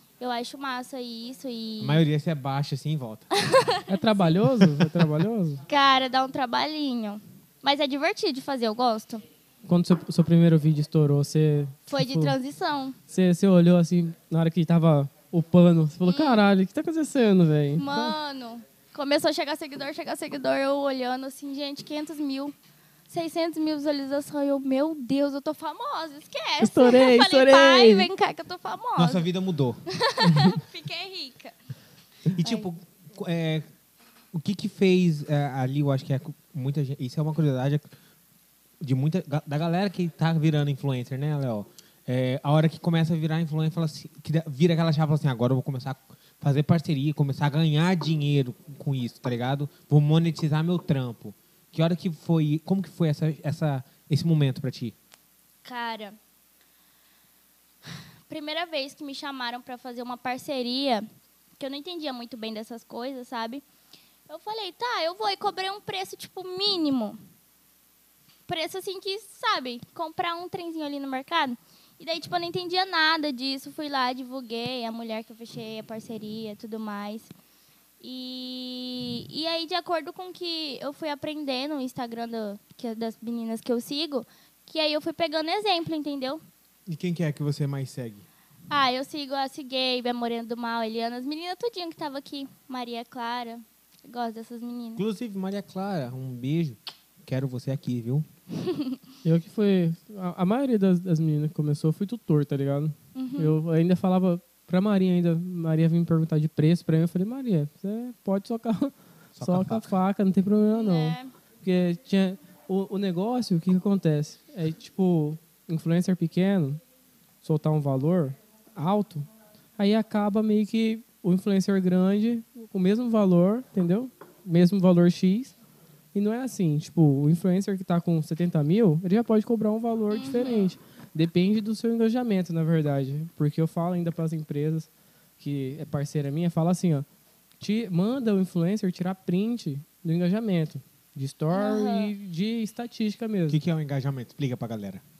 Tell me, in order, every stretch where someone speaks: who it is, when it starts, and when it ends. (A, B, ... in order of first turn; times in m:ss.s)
0:00.2-0:02.0 A
0:01.8-0:03.3 B
0:03.3-0:04.4 A
0:03.9-0:05.6 C
0:05.7-0:09.2 A
0:09.6-0:12.4 C
0:11.9-0:13.0 A
0:13.1-0:18.1 C
0:16.0-0:16.4 A
0:17.8-0:22.5 A
0:23.1-0:29.2 A
0:26.6-0:28.1 C
0:29.0-0:29.8 B
0:29.9-0:31.6 A
0:30.2-0:30.5 C
0:32.3-0:33.6 B
0:32.4-0:32.7 A
0:34.3-0:37.8 B
0:38.8-0:55.0 B
0:55.6-0:56.2 A
0:57.8-1:01.0 A
1:01.6-1:03.6 A
1:04.3-1:07.2 A
1:08.5-1:17.3 A
1:18.0-1:26.4 A
1:26.9-1:28.2 B
1:28.7-1:35.0 A
1:35.0-1:38.2 B
1:38.6-1:39.0 A
1:39.2-1:56.8 C
1:43.1-1:43.5 A
1:49.4-1:49.9 B
1:50.8-1:51.3 A
1:57.4-1:59.3 C
1:59.8-2:05.5 C
2:06.1-2:14.9 C
2:10.1-2:10.7 A
2:15.4-2:17.0 C
2:17.6-2:23.6 C
2:21.5-2:22.1 A
2:23.5-2:25.0 B